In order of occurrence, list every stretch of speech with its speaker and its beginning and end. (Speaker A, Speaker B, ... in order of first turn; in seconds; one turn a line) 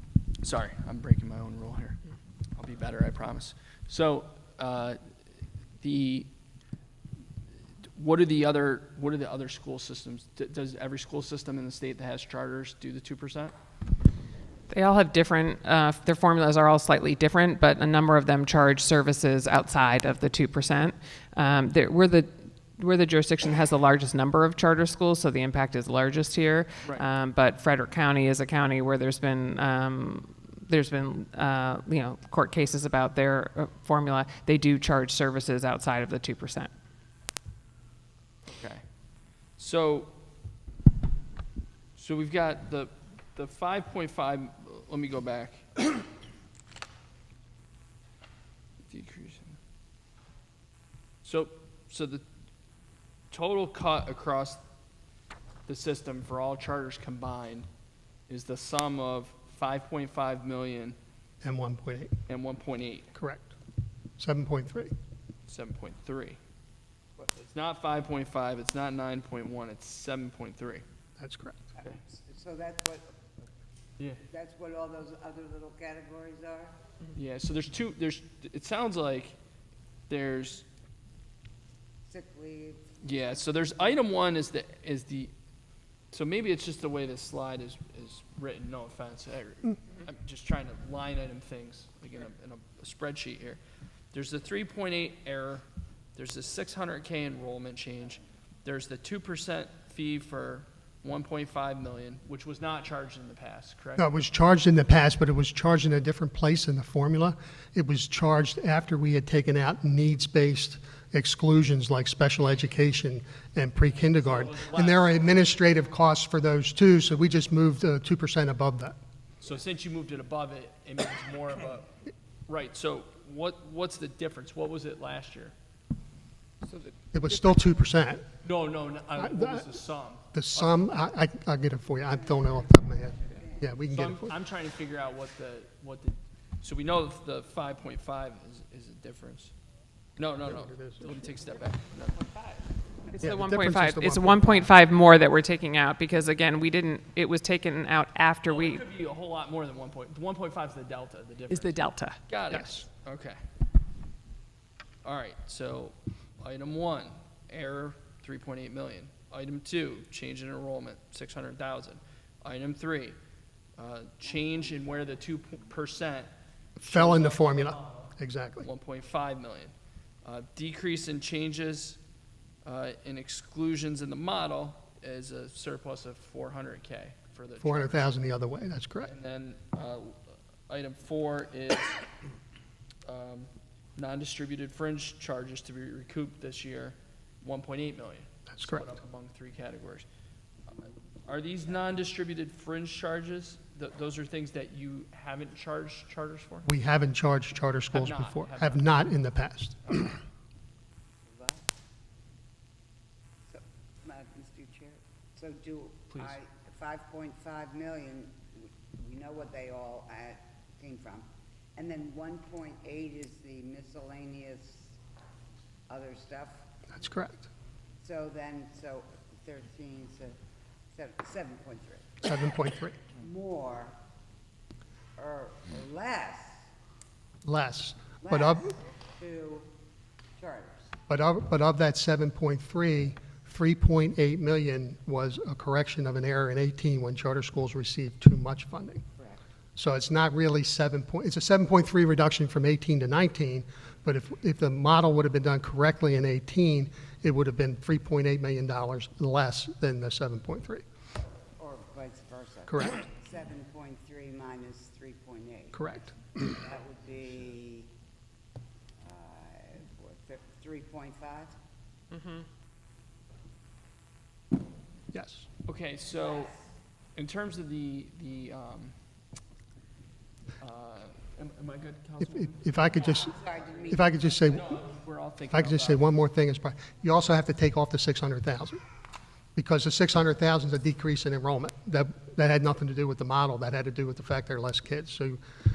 Speaker A: 0.4-2.0
Speaker A: 2.5-5.0
Speaker A: 5.8-6.3
Speaker A: 8.0-13.5
Speaker B: 14.7-36.7
Speaker A: 38.5-38.9
Speaker A: 39.6-40.1
Speaker A: 42.0-46.0
Speaker A: 48.9-49.6
Speaker A: 51.2-52.2
Speaker A: 53.3-54.6
Speaker A: 55.7-57.7
Speaker A: 58.3-61.0
Speaker C: 61.4-62.1
Speaker A: 62.3-63.1
Speaker C: 63.1-63.5
Speaker C: 64.2-64.9
Speaker A: 65.5-66.4
Speaker A: 67.2-70.8
Speaker C: 71.2-71.6
Speaker D: 71.8-73.5
Speaker D: 74.2-76.7
Speaker A: 77.1-79.3
Speaker A: 80.1-80.7
Speaker D: 82.0-84.0
Speaker A: 83.0-85.3
Speaker A: 86.1-93.6
Speaker A: 94.1-95.6
Speaker A: 96.2-104.1
Speaker C: 104.0-119.0
Speaker A: 113.9-115.6
Speaker A: 119.4-121.9
Speaker A: 122.5-125.5
Speaker D: 126.7-126.9
Speaker C: 127.1-128.2
Speaker A: 128.4-130.7
Speaker C: 129.2-129.7
Speaker C: 130.3-134.3
Speaker D: 132.1-133.7
Speaker A: 133.9-139.5
Speaker A: 140.2-142.6
Speaker C: 140.4-141.1
Speaker B: 143.1-148.8
Speaker C: 143.2-144.7
Speaker A: 148.4-151.7
Speaker B: 151.5-152.2
Speaker A: 152.3-153.4
Speaker A: 155.0-163.2
Speaker A: 163.8-168.1
Speaker C: 166.8-168.7
Speaker A: 168.6-172.0
Speaker A: 172.6-178.2
Speaker C: 177.6-179.1
Speaker A: 179.0-182.0
Speaker A: 183.0-190.1
Speaker C: 188.5-188.8
Speaker A: 191.2-196.7
Speaker C: 196.7-200.1
Speaker A: 197.9-199.0
Speaker D: 201.3-201.7
Speaker D: 203.5-215.0
Speaker D: 215.9-216.8
Speaker C: 216.9-217.5
Speaker D: 218.0-220.4
Speaker D: 220.9-222.2
Speaker C: 222.2-223.0
Speaker D: 223.1-223.9
Speaker D: 225.2-226.6
Speaker C: 227.4-228.8
Speaker D: 228.2-229.7
Speaker D: 230.4-230.9
Speaker C: 231.1-239.0
Speaker C: 239.8-250.8
Speaker D: 251.6-255.9
Speaker C: 252.7-253.0
Speaker C: 255.7-256.6
Speaker D: 256.5-257.9
Speaker D: 259.0-261.5
Speaker B: 262.1-262.4
Speaker C: 265.1-265.5
Speaker A: 265.6-266.6
Speaker A: 267.1-268.9
Speaker A: 270.6-272.7
Speaker C: 272.2-273.3
Speaker D: 272.8-274.6
Speaker C: 273.9-274.8
Speaker A: 274.5-276.1
Speaker C: 275.5-278.8
Speaker C: 279.6-285.4